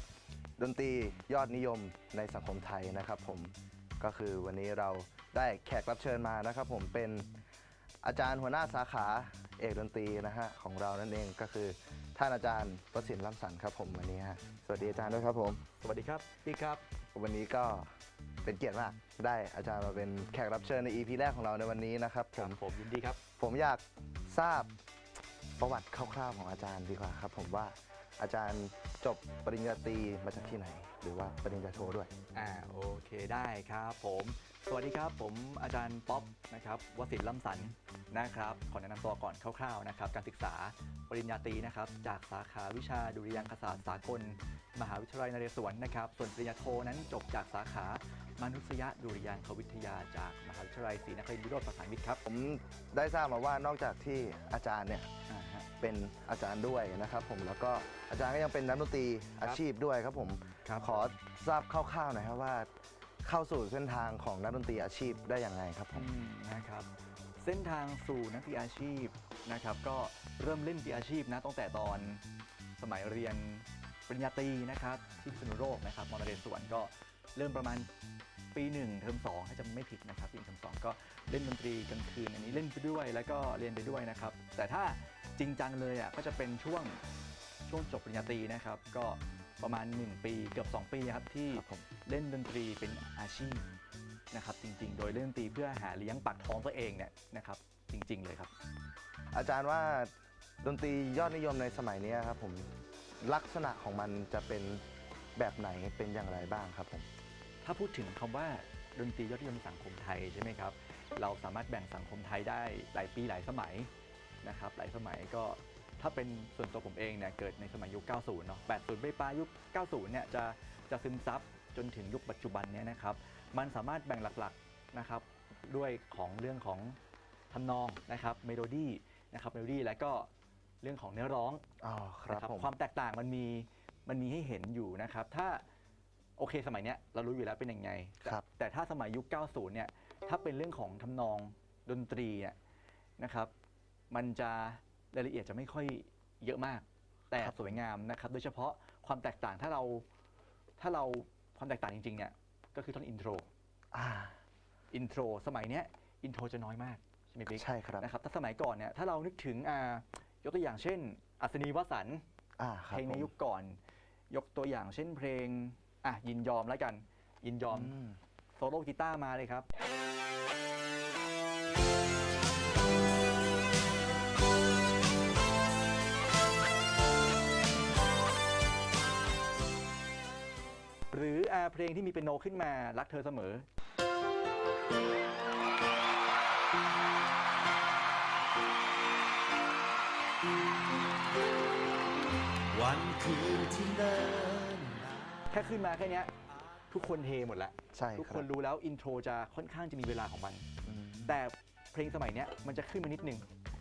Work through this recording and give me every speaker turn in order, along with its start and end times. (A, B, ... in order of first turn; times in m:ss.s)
0:00.6-0:07.3 A
0:08.0-0:15.6 A
0:14.8-0:16.8 B
0:17.1-0:17.9 A
0:18.4-0:22.6 A
0:22.3-0:23.2 B
0:23.4-0:24.7 A
0:25.6-0:32.1 A
0:32.3-0:52.2 B
0:52.2-0:55.1 A
0:55.3-0:55.7 B
0:55.8-1:02.7 A
1:00.6-1:00.9 B
1:03.2-1:06.1 A
1:05.9-1:06.9 B
1:07.4-1:12.2 B
1:12.8-1:17.9 B
1:18.5-1:27.0 B
1:27.7-1:33.7 B
1:31.5-1:31.8 A
1:34.3-1:38.5 B
1:39.3-1:42.7 A
1:43.2-1:44.8 A
1:45.4-1:47.1 A
1:47.6-1:53.9 B
1:54.4-2:07.0 B
2:07.5-2:10.3 B
2:10.8-2:11.6 B
2:11.8-2:12.7 A
2:12.3-2:15.6 B
2:16.4-2:22.6 B
2:23.2-2:23.5 B
2:24.1-2:30.0 B
2:30.8-2:33.5 B
2:33.9-2:34.4 A
2:34.9-2:42.2 B
2:37.5-2:38.1 A
2:42.6-2:43.3 A
2:42.9-2:43.8 B
2:44.3-2:47.9 B
2:47.6-2:48.2 A
2:48.6-2:49.7 B
3:01.1-3:03.6 B
3:12.8-3:15.1 C
3:15.4-3:16.3 B
3:16.9-3:20.7 B
3:17.9-3:18.5 A
3:20.8-3:21.4 A
3:21.2-3:23.4 B